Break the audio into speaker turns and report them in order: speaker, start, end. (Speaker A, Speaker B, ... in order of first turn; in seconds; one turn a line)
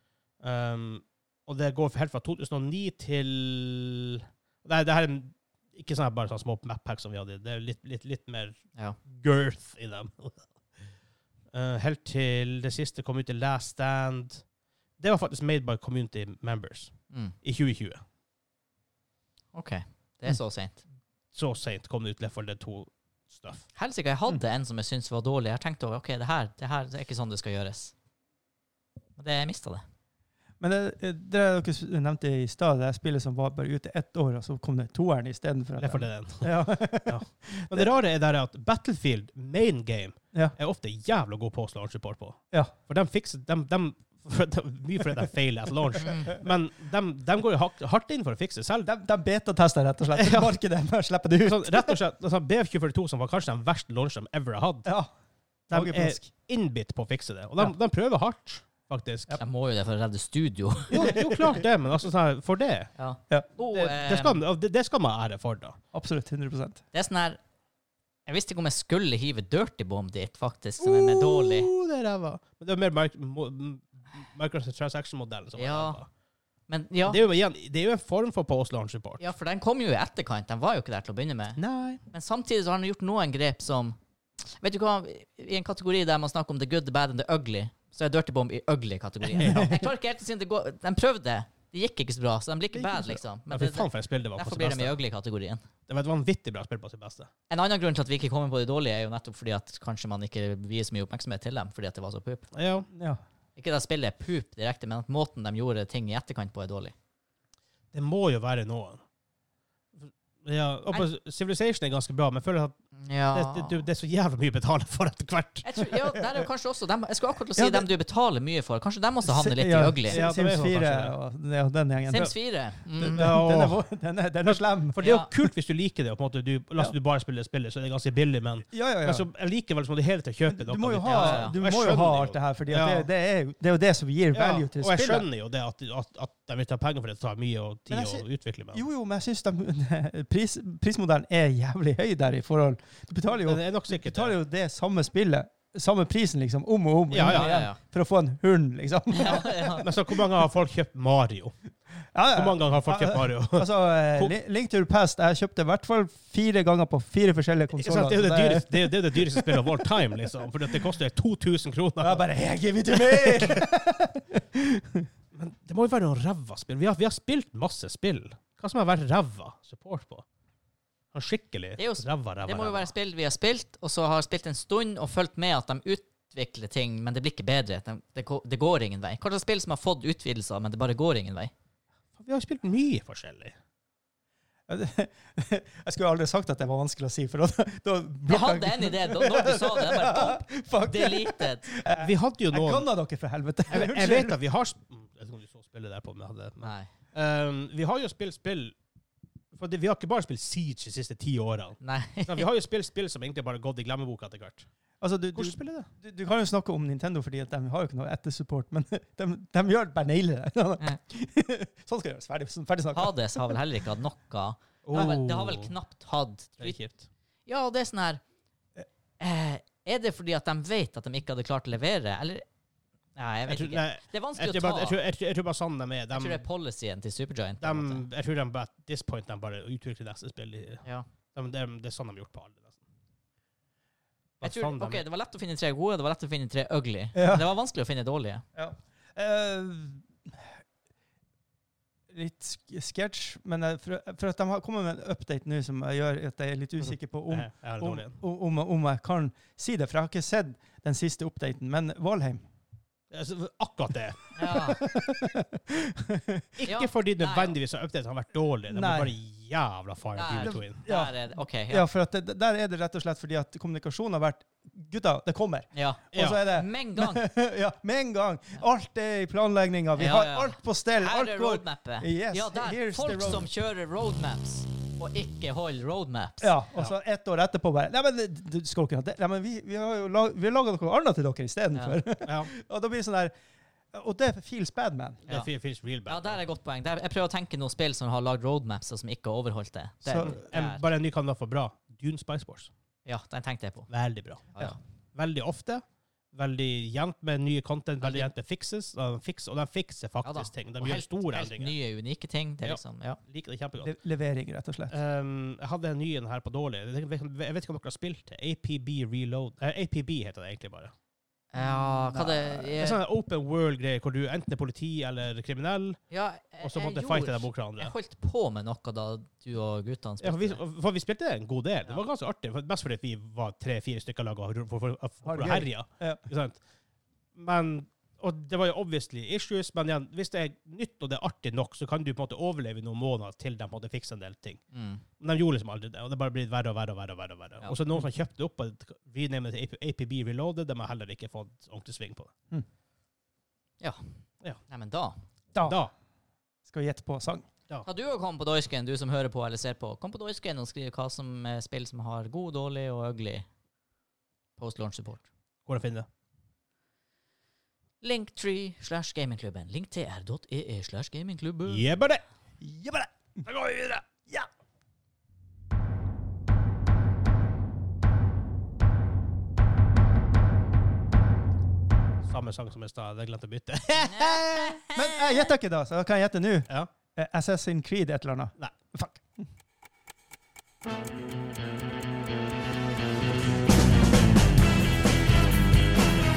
Speaker A: 0.4-10.4
Speaker A: 11.5-14.4
Speaker A: 15.0-18.0
Speaker B: 17.1-17.4
Speaker B: 19.5-20.8
Speaker A: 21.3-23.7
Speaker B: 23.7-27.9
Speaker B: 29.2-29.8
Speaker C: 30.6-37.9
Speaker A: 35.8-48.9
Speaker B: 46.0-46.4
Speaker C: 48.8-52.0
Speaker A: 50.1-50.5
Speaker A: 51.4-54.9
Speaker C: 54.9-55.1
Speaker C: 55.7-56.3
Speaker A: 55.7-59.4
Speaker B: 59.4-61.0
Speaker A: 60.9-62.9
Speaker C: 60.9-61.6
Speaker B: 63.0-64.4
Speaker A: 63.7-65.8
Speaker C: 65.9-66.8
Speaker B: 66.9-67.4
Speaker B: 68.3-71.7
Speaker A: 70.8-76.0
Speaker B: 75.5-76.0
Speaker B: 76.7-77.2
Speaker A: 77.0-79.2
Speaker B: 79.2-81.6
Speaker A: 81.6-82.0
Speaker B: 82.1-95.6
Speaker A: 89.3-89.8
Speaker C: 89.4-89.8
Speaker A: 93.5-94.9
Speaker A: 95.9-97.3
Speaker B: 97.5-102.5
Speaker A: 102.5-102.9
Speaker C: 102.9-103.2
Speaker B: 103.5-106.9
Speaker A: 107.9-109.0
Speaker A: 110.0-112.8
Speaker B: 113.0-113.8
Speaker A: 113.3-115.8
Speaker B: 115.6-120.2
Speaker C: 117.5-117.9
Speaker C: 119.2-122.3
Speaker A: 120.1-121.1
Speaker B: 122.1-123.3
Speaker C: 122.9-125.1
Speaker A: 123.0-123.8
Speaker A: 124.8-133.1
Speaker B: 125.0-125.3
Speaker C: 128.7-129.2
Speaker C: 130.5-135.2
Speaker B: 131.0-131.6
Speaker A: 134.3-138.8
Speaker C: 137.9-149.9
Speaker A: 143.4-144.3
Speaker A: 147.1-147.6
Speaker B: 147.2-147.8
Speaker B: 149.1-149.8
Speaker A: 149.8-151.5
Speaker C: 152.1-160.2
Speaker A: 152.3-154.3
Speaker A: 157.7-162.2
Speaker C: 162.0-165.1
Speaker A: 162.9-163.6
Speaker A: 165.3-170.2
Speaker A: 171.1-172.9
Speaker B: 171.8-181.5
Speaker A: 182.2-183.5
Speaker C: 184.7-194.4
Speaker B: 188.3-191.7
Speaker A: 192.0-192.8
Speaker A: 193.7-198.7
Speaker B: 196.6-196.9
Speaker A: 199.5-204.7
Speaker B: 201.8-202.4
Speaker C: 205.0-213.6
Speaker A: 205.3-205.9
Speaker B: 212.9-216.8
Speaker A: 214.8-215.7
Speaker A: 216.6-217.0
Speaker B: 217.5-218.2
Speaker B: 219.2-222.4
Speaker B: 223.2-225.0
Speaker A: 223.5-226.4
Speaker B: 226.1-228.0
Speaker A: 227.6-232.8
Speaker A: 234.4-235.0
Speaker B: 234.4-238.4
Speaker C: 237.1-237.4
Speaker C: 238.5-240.5
Speaker C: 242.1-252.4
Speaker A: 246.8-248.2
Speaker A: 253.1-254.3
Speaker B: 254.3-254.8
Speaker C: 254.5-256.6
Speaker A: 256.6-260.8
Speaker B: 256.6-257.6
Speaker C: 258.7-259.1
Speaker B: 260.1-261.9
Speaker C: 260.4-273.4
Speaker B: 265.7-267.2
Speaker A: 266.1-266.4
Speaker B: 269.9-276.5
Speaker C: 276.4-283.3
Speaker B: 281.7-282.0
Speaker A: 282.2-282.5
Speaker C: 283.9-285.2
Speaker A: 285.3-286.4
Speaker B: 286.1-290.8
Speaker C: 290.0-290.4
Speaker A: 290.2-292.7
Speaker B: 293.1-293.9
Speaker A: 293.9-294.6
Speaker B: 294.5-294.8
Speaker A: 295.1-301.8
Speaker B: 298.0-298.3
Speaker B: 300.2-303.2
Speaker A: 302.6-303.9
Speaker C: 303.8-305.0
Speaker A: 304.9-310.9
Speaker B: 311.5-313.0
Speaker C: 311.6-312.3
Speaker A: 312.1-316.0
Speaker B: 316.1-320.6
Speaker A: 316.6-317.9
Speaker A: 320.2-326.6
Speaker C: 325.2-326.2
Speaker A: 327.3-334.6
Speaker B: 334.7-335.0
Speaker A: 335.2-342.3
Speaker B: 344.7-345.2
Speaker C: 345.5-345.8
Speaker A: 345.6-345.9
Speaker C: 346.6-347.5
Speaker B: 347.8-353.5
Speaker B: 354.6-355.2
Speaker A: 355.6-356.1
Speaker B: 358.0-361.8
Speaker A: 361.6-362.2
Speaker C: 362.6-364.5
Speaker A: 372.2-374.8
Speaker B: 374.0-375.4
Speaker C: 374.9-379.4